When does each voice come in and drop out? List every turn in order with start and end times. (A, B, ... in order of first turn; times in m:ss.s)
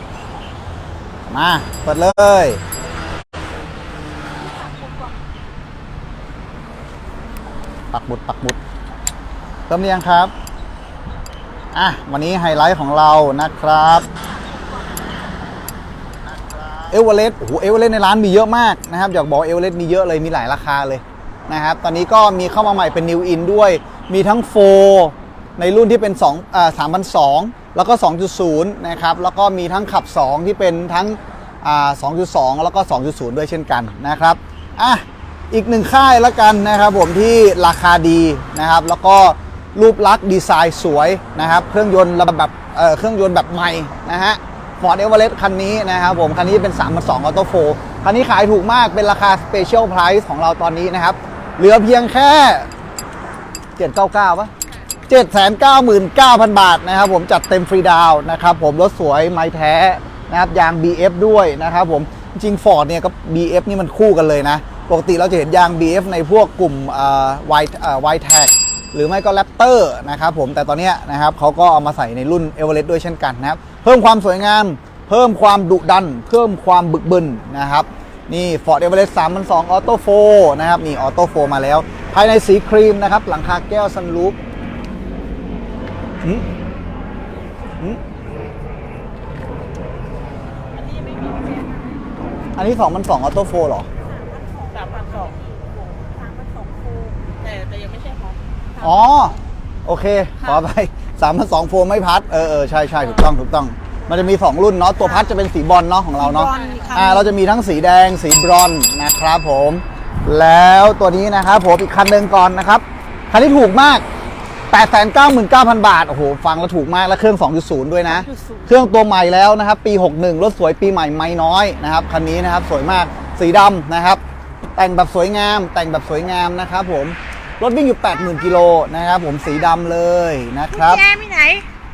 0:01.3-0:02.6 A
0:04.6-0:05.0 B
0:07.9-0:08.6 A
0:09.7-0:10.3 A
0:11.7-0:14.1 A
0:16.9-0:52.7 A
0:53.8-0:54.5 A
0:55.1-1:24.4 A
1:30.8-1:31.9 B
1:32.6-1:33.9 A
1:34.0-1:37.2 B
1:38.8-1:54.0 A
1:45.0-1:45.4 B
1:46.2-1:47.3 B
1:54.7-2:04.2 A
1:58.0-1:58.7 B
2:04.8-2:11.0 A
2:10.7-2:11.6 B